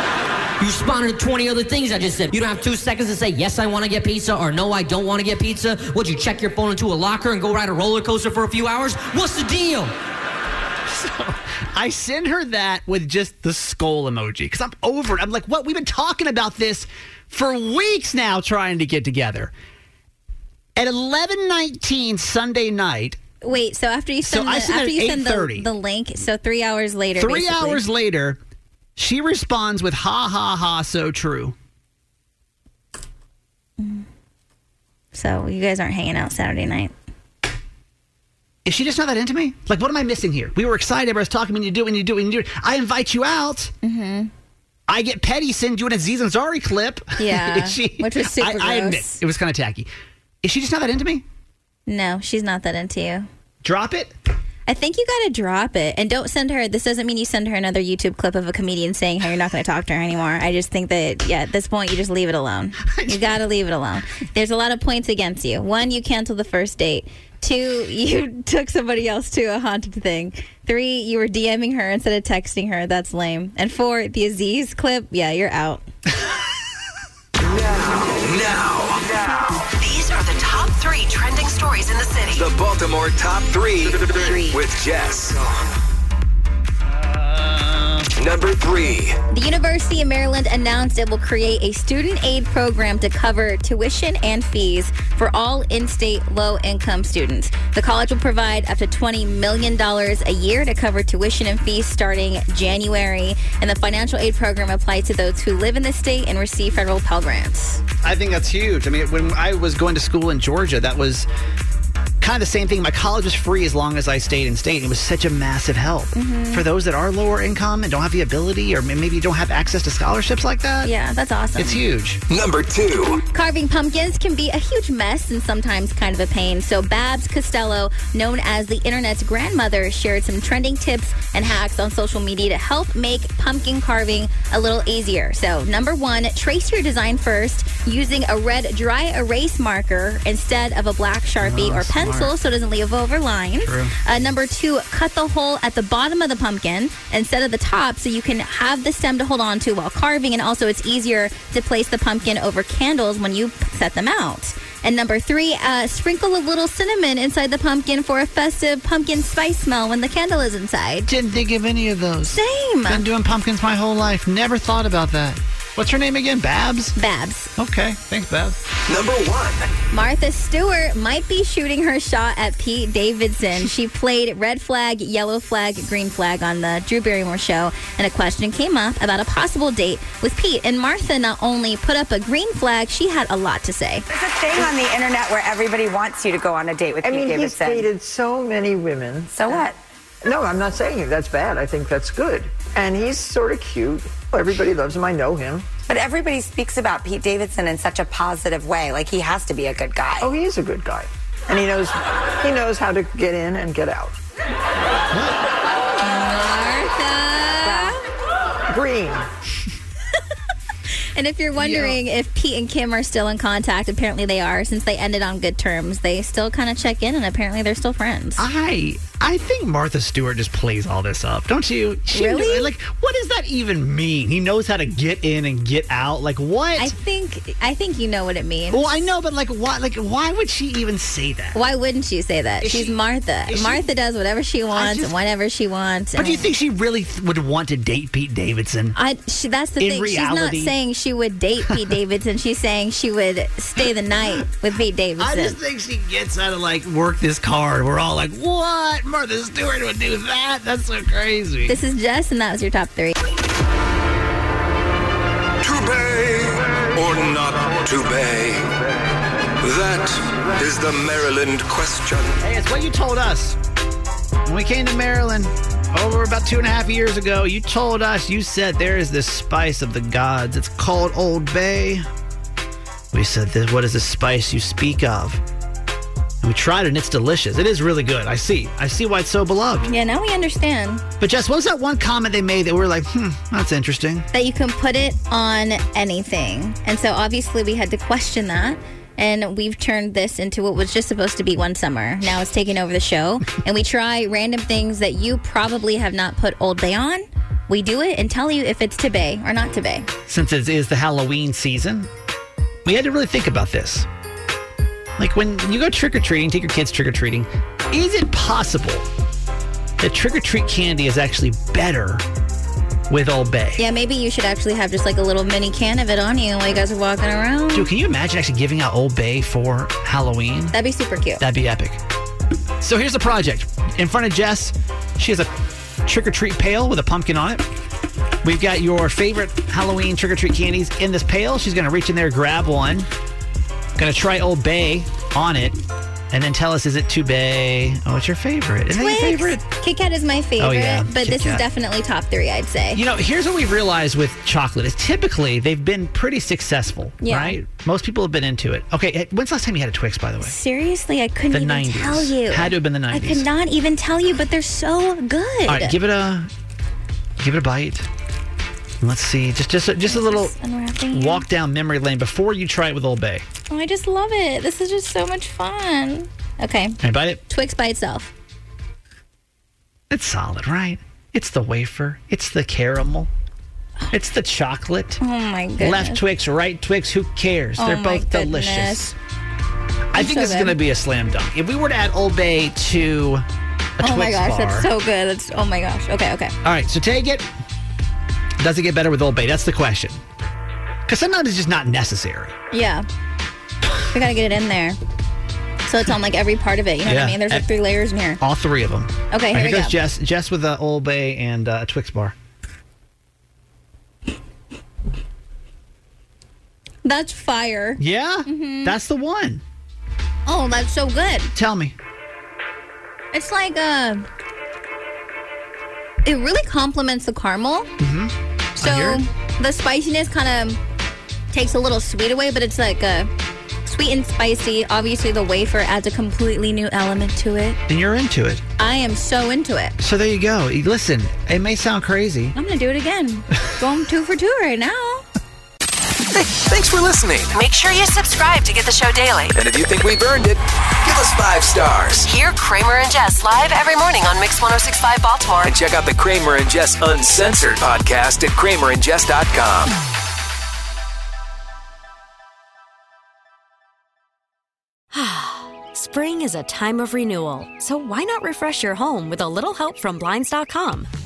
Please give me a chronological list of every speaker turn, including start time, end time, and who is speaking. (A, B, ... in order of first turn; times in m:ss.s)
0:00.6-0:09.9 A
0:10.9-0:19.5 B
0:20.8-0:23.2 B
0:23.4-0:27.8 C
0:24.2-0:25.7 B
0:27.2-0:28.4 B
0:29.0-0:31.5 B
0:33.8-0:34.0 C
0:35.1-0:36.9 C
0:38.6-0:43.7 B
0:43.8-0:44.3 C
0:44.9-0:49.9 B
0:47.2-0:49.2 C
0:50.4-0:51.2 B
0:51.9-0:53.3 C
0:53.6-0:54.1 B
0:54.7-1:15.8 C
1:02.9-1:03.4 B
1:17.4-1:19.5 D
1:19.8-1:22.4 E
1:22.3-1:25.5 D
1:24.1-1:24.6 C
1:26.9-1:28.1 B
1:28.2-1:29.2 D
1:29.3-1:47.8 C
1:48.0-1:51.3 B
1:52.2-2:00.9 B
1:56.1-1:56.6 C
2:00.8-2:01.8 C
2:01.6-2:02.2 B
2:02.3-2:03.2 D
2:03.2-2:41.1 C
2:21.4-2:22.3 B
2:23.6-2:23.9 B
2:41.0-2:46.9 B
2:42.3-2:43.0 C
2:47.0-2:47.5 C
2:47.6-2:48.6 B
2:48.9-2:49.7 D
2:49.9-3:04.0 C
3:04.1-3:07.9 F
3:07.0-3:09.7 G
3:09.3-3:09.8 F
3:10.2-3:15.8 G
3:15.9-3:20.3 F
3:20.2-3:24.2 G
3:26.0-3:28.0 C
3:28.7-3:29.3 G
3:31.1-3:38.4 C
3:31.6-3:32.0 B
3:38.4-3:46.9 B
3:42.1-3:42.7 C
3:46.8-3:48.8 C
3:48.7-3:51.6 B
3:51.5-3:56.4 C
3:52.6-3:53.9 B
3:54.7-3:55.2 B
3:56.2-3:59.0 B
3:58.9-4:05.6 C
3:59.8-4:00.7 B
4:03.8-4:04.4 B
4:05.2-4:11.8 B
4:11.7-4:13.2 C
4:15.6-4:18.6 D
4:19.6-4:22.3 D
4:22.4-4:23.6 B
4:24.4-4:32.0 B
4:33.1-4:35.4 B
4:36.4-4:39.9 B
4:39.9-4:41.0 C
4:41.2-4:44.3 B
4:44.3-5:00.1 C
5:00.3-5:02.1 B
5:02.8-5:04.0 B
5:05.2-5:09.0 B
5:10.0-5:12.2 B
5:13.1-5:13.8 B
5:13.8-5:17.9 C
5:17.7-5:20.8 B
5:20.7-5:21.4 C
5:21.4-5:22.0 B
5:22.8-5:25.5 B
5:26.0-5:27.6 B
5:28.4-5:33.1 B
5:34.0-5:35.8 B
5:36.3-5:39.6 B
5:38.9-5:43.0 C
5:40.6-5:41.6 B
5:42.9-5:50.6 B
5:47.2-5:47.6 C
5:50.4-5:55.9 C
5:51.5-5:53.5 B
5:55.7-5:56.5 B
5:57.4-5:58.0 B
5:59.0-6:00.5 B
6:00.0-6:01.4 C
6:01.1-6:03.4 B
6:03.7-6:07.0 C
6:07.0-6:07.4 B
6:07.5-6:08.3 C
6:10.1-6:13.3 B
6:14.1-6:15.2 B
6:15.2-6:16.2 C
6:15.8-6:19.1 B
6:17.8-6:19.1 C
6:20.1-6:23.4 B
6:20.1-6:20.7 C
6:24.0-6:24.9 B
6:24.0-6:26.5 C
6:26.6-6:27.5 B
6:28.6-6:30.2 B
6:31.1-6:32.5 B
6:32.7-6:33.1 C
6:34.1-6:35.0 C
6:35.8-6:38.4 C
6:37.0-6:37.7 B
6:38.4-6:42.3 B
6:39.3-6:39.9 C
6:47.0-6:48.9 C
6:48.0-6:49.6 B
6:50.4-6:51.5 C
6:51.5-6:51.9 B
6:53.3-6:54.2 C
6:56.2-6:57.9 C
6:58.0-6:59.2 B
6:58.8-7:00.8 C
7:01.5-7:03.3 C
7:03.8-7:07.8 C
7:07.9-7:08.6 B
7:08.8-7:09.9 C
7:10.0-7:12.6 B
7:12.5-7:15.2 C
7:16.3-7:17.6 D
7:17.5-7:19.6 E
7:19.5-7:22.3 D
7:22.2-7:25.7 E
7:25.6-7:30.0 D
7:35.1-7:41.1 H